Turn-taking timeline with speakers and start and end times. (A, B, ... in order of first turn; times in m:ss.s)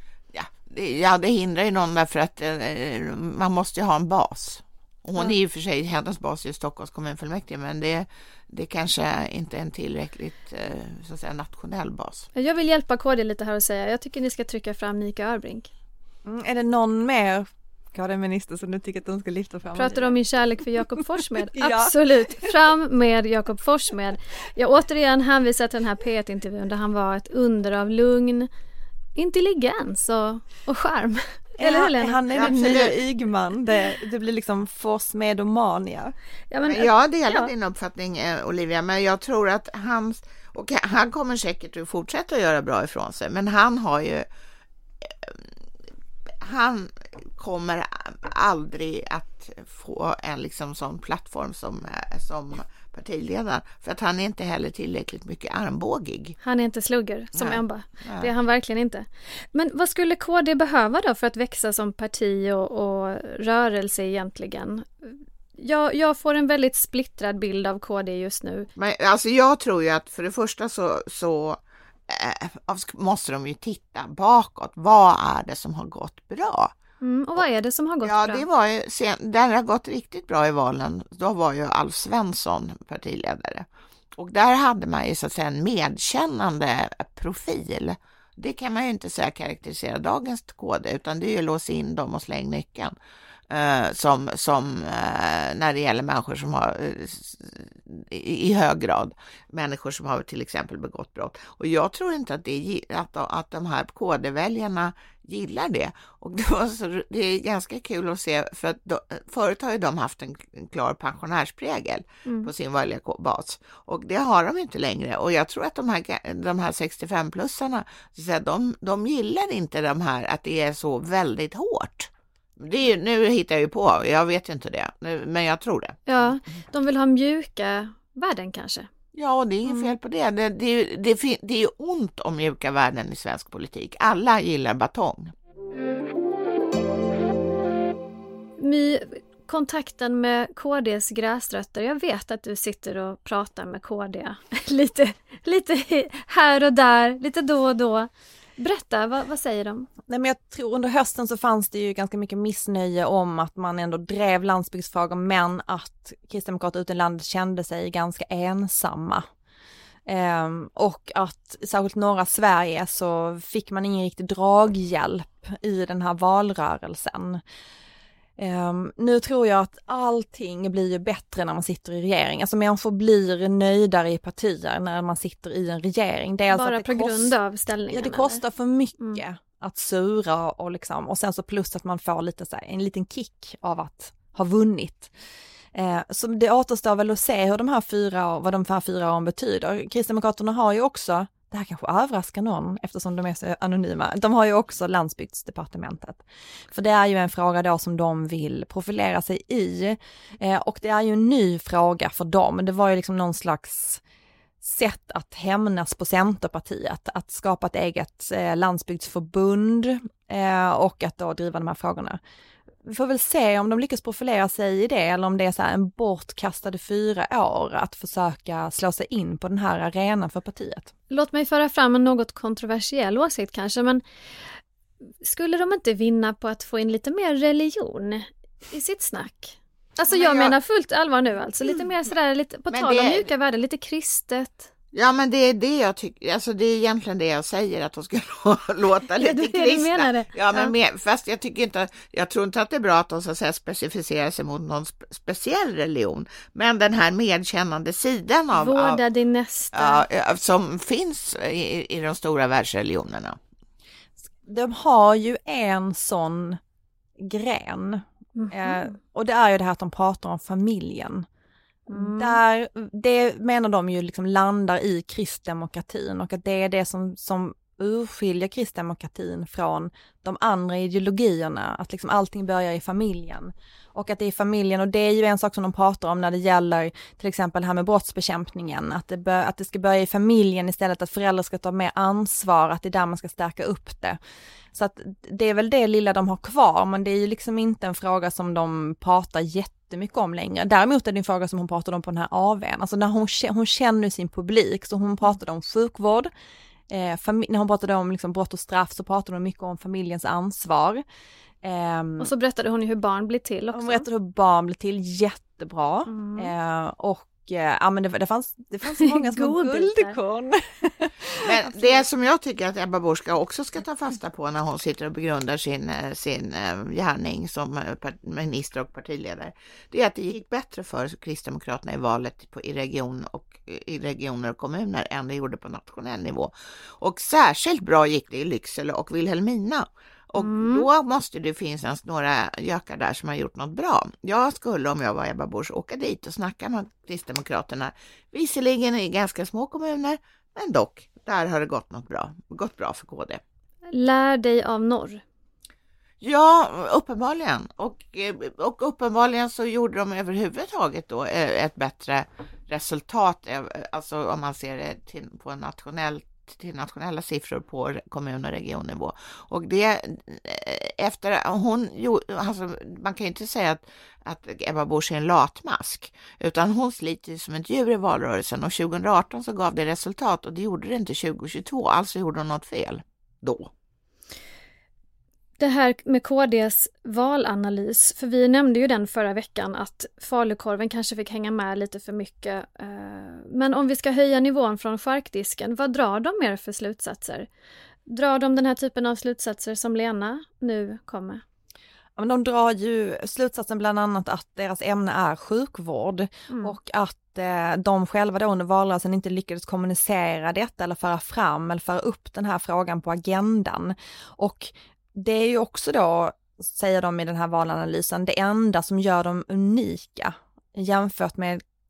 0:00.3-0:12.3 A
0:12.4-0:15.7 B
0:16.2-0:20.2 C
0:19.7-0:28.5 B
0:21.3-0:22.5 C
0:29.2-0:32.6 B
0:31.6-0:36.1 C
0:32.3-0:33.0 A
0:36.5-0:37.5 B
0:36.7-0:44.2 A
0:45.0-0:45.4 A
0:46.4-0:56.4 A
0:56.4-1:08.7 B
0:57.3-0:58.3 A
1:08.8-1:16.7 A
1:17.0-1:18.4 B
1:18.0-1:32.9 A
1:33.5-2:06.2 A
2:06.1-2:08.9 B
2:09.1-2:15.3 A
2:09.7-2:09.9 B
2:18.6-2:29.9 B
2:30.1-2:39.2 C
2:40.0-2:47.4 C
2:48.4-2:57.3 C
2:56.5-2:58.4 B
2:57.9-3:05.1 C
3:05.7-3:24.0 C
3:24.6-3:32.2 C
3:32.8-3:40.9 C
3:41.1-3:44.0 B
3:45.2-3:54.7 B
3:50.1-3:50.6 A
3:52.7-3:53.3 A
3:54.9-4:09.0 A
3:59.2-4:00.7 B
4:08.5-4:10.0 B
4:09.7-4:13.4 A
4:14.2-4:16.6 C
4:17.2-4:21.2 C
4:18.4-4:18.9 B
4:21.9-4:22.4 B
4:21.9-4:44.2 C
4:44.7-4:56.3 C
4:56.9-5:01.0 C
5:01.6-5:02.3 C
5:02.2-5:04.0 B
5:03.7-5:12.0 C
5:06.1-5:06.5 B
5:08.9-5:10.2 B
5:11.4-5:43.4 A
5:30.4-5:30.9 B
5:43.9-5:45.2 B
5:46.2-6:13.7 A
6:15.6-6:27.5 B
6:28.1-6:31.4 B
6:32.2-6:51.6 C
6:36.5-6:36.8 B